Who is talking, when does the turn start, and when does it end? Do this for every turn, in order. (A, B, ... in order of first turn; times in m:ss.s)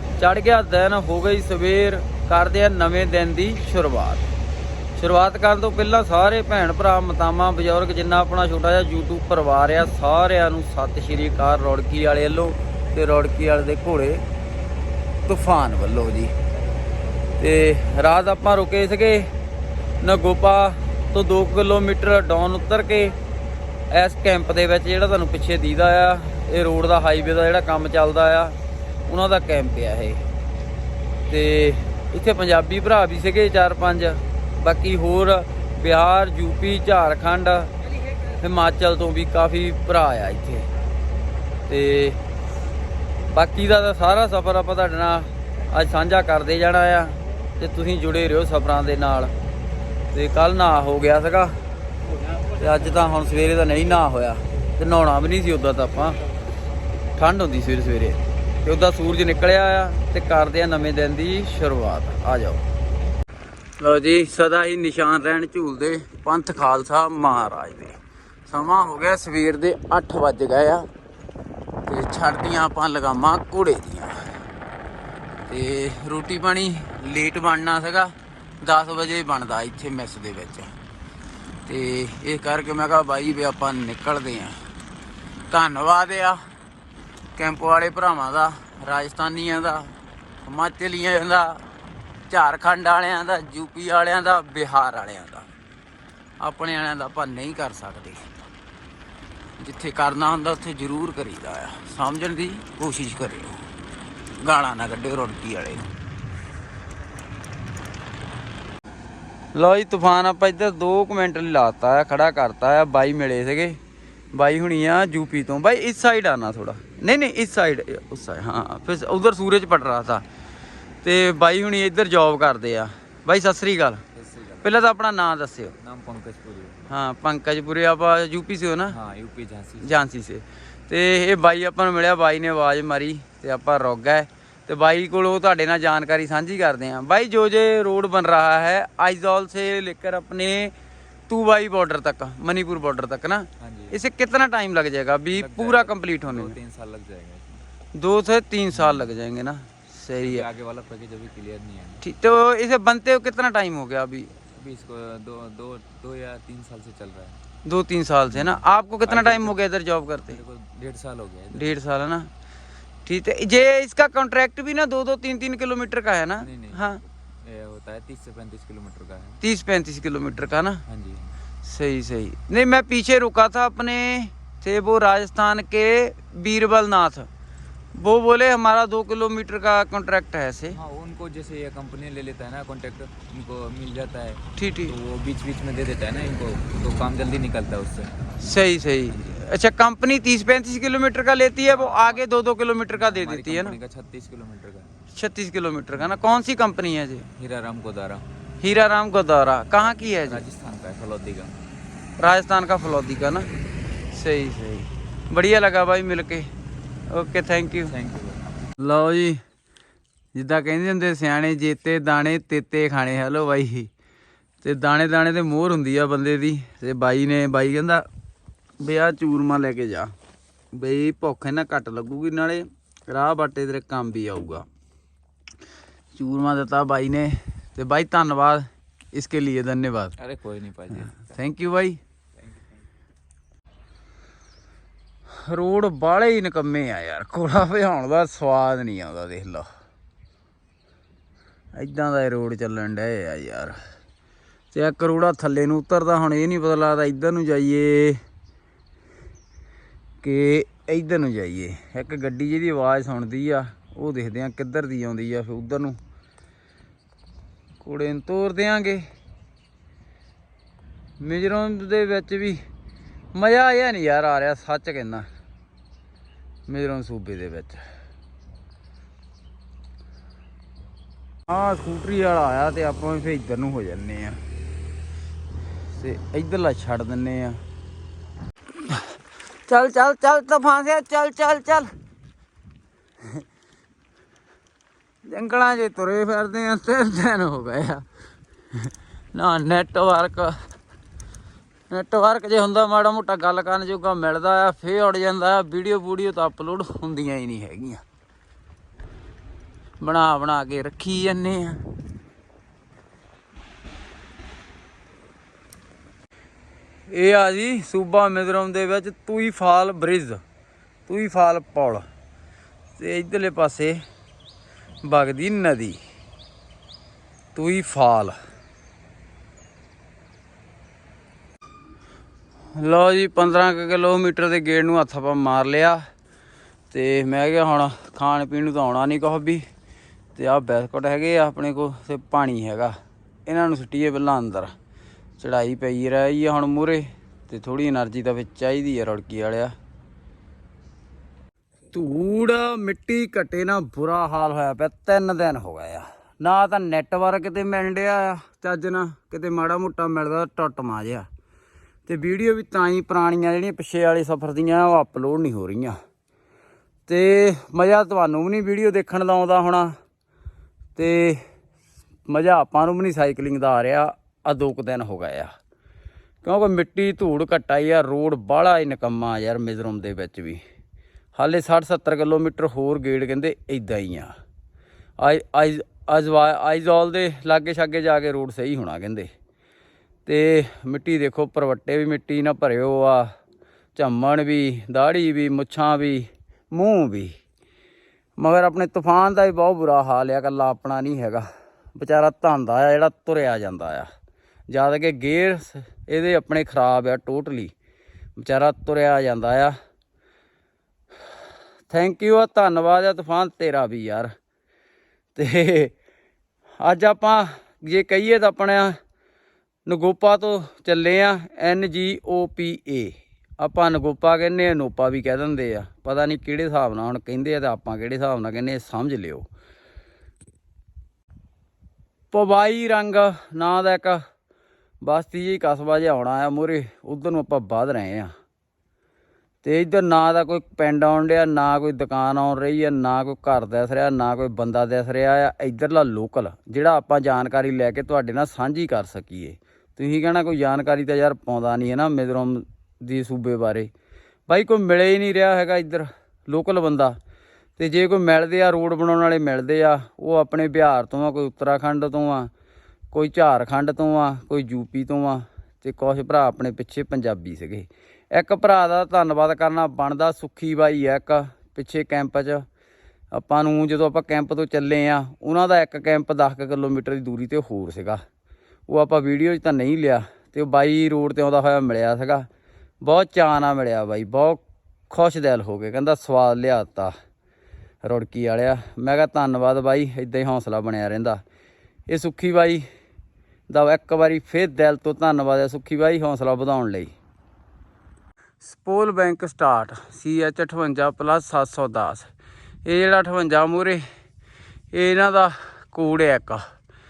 0:00.2-0:04.2 A
0:05.0-0:14.2 A
0:15.2-0:16.3 A
0:17.4-0:19.3 A
0:20.0-0:23.2 A
0:23.9-0:30.2 A
0:31.3-0:37.7 A
0:38.4-0:40.6 A
0:41.7-0:42.2 A
0:43.3-0:49.3 A
0:50.1-0:51.6 A
0:52.5-0:56.2 A
0:57.2-1:02.6 A
1:03.8-1:08.0 A
1:08.5-1:10.9 A
1:11.8-1:14.2 A
1:15.5-1:20.7 A
1:21.6-1:24.6 A
1:25.5-1:26.4 A
1:27.4-1:29.9 A
1:30.4-1:31.6 A
1:32.3-1:35.5 A
1:36.4-1:38.2 A
1:39.6-1:43.6 A
1:44.4-1:45.9 A
1:49.5-1:53.8 A
1:54.3-2:00.2 A
2:01.0-2:04.0 A
2:04.1-2:04.8 B
2:04.6-2:05.8 A
2:05.8-2:06.9 B
2:06.9-2:09.0 A
2:08.9-2:10.0 B
2:09.8-2:20.7 A
2:21.3-2:26.6 A
2:23.6-2:24.0 B
2:25.3-2:27.6 B
2:27.9-2:30.4 A
2:28.7-2:29.1 B
2:30.2-2:32.0 B
2:32.0-2:34.3 A
2:34.5-2:37.4 B
2:37.6-2:40.4 A
2:38.3-2:39.5 B
2:40.3-2:41.8 B
2:41.5-2:42.3 A
2:43.0-2:47.0 A
2:46.4-2:49.4 B
2:49.4-2:50.8 A
2:50.9-2:51.4 B
2:51.6-2:57.3 A
2:57.9-3:00.8 A
3:00.7-3:08.1 B
3:04.6-3:04.9 A
3:08.4-3:13.8 A
3:11.6-3:12.2 B
3:12.9-3:14.9 B
3:15.1-3:17.3 A
3:17.4-3:18.2 B
3:18.6-3:20.4 A
3:19.8-3:21.5 B
3:22.2-3:23.5 A
3:24.1-3:26.5 A
3:27.1-3:27.9 A
3:27.8-3:28.5 B
3:28.8-3:29.4 A
3:30.3-3:33.9 A
3:34.6-3:38.0 A
3:38.8-3:40.1 A
3:40.7-3:44.6 A
3:46.1-3:50.2 A
3:50.2-3:51.3 B
3:51.1-3:52.0 A
3:52.4-3:52.8 B
3:55.4-3:59.7 A
4:01.7-4:03.8 A
4:04.7-4:08.2 A
4:10.2-4:16.0 A
4:17.8-4:19.0 A
4:21.2-4:22.6 A
4:23.3-4:25.3 A
4:26.7-4:27.8 A
4:31.5-4:34.4 A
4:35.9-4:37.6 A
4:39.7-4:41.9 A
4:45.2-4:48.0 A
4:49.3-4:50.6 A
4:51.9-4:58.0 A
5:00.0-5:01.8 A
5:07.1-5:10.4 A
5:11.1-5:12.0 A
5:13.0-5:14.0 A
5:15.0-5:16.0 A
5:17.5-5:18.4 A
5:22.8-5:26.0 A
5:26.9-5:29.6 A
5:30.3-5:32.9 A
5:33.5-5:34.7 A
5:35.4-5:39.7 A
5:41.9-5:51.3 A
5:52.0-5:56.0 A
5:57.1-5:59.9 A
6:01.0-6:01.4 A
6:02.3-6:05.5 A
6:06.4-6:10.6 A
6:11.3-6:14.3 A
6:15.2-6:19.3 A
6:20.2-6:23.3 A
6:23.9-6:27.3 A
6:28.4-6:34.1 A
6:34.7-6:37.7 A
6:38.4-6:39.7 A
6:41.9-6:44.3 A
6:45.3-6:45.9 A
6:46.8-6:49.0 A
6:49.9-6:59.4 A
7:02.3-7:04.2 A
7:05.0-7:08.3 A
7:09.6-7:23.9 A
7:24.5-7:27.2 A
7:27.8-7:32.5 A
7:33.1-7:42.6 A
7:43.3-7:48.2 A
7:48.9-7:52.4 A
7:53.0-7:57.1 A
7:58.0-8:01.4 A
8:02.1-8:02.8 A
8:03.7-8:07.1 A
8:08.6-8:12.3 A
8:12.8-8:14.0 A
8:14.9-8:16.6 A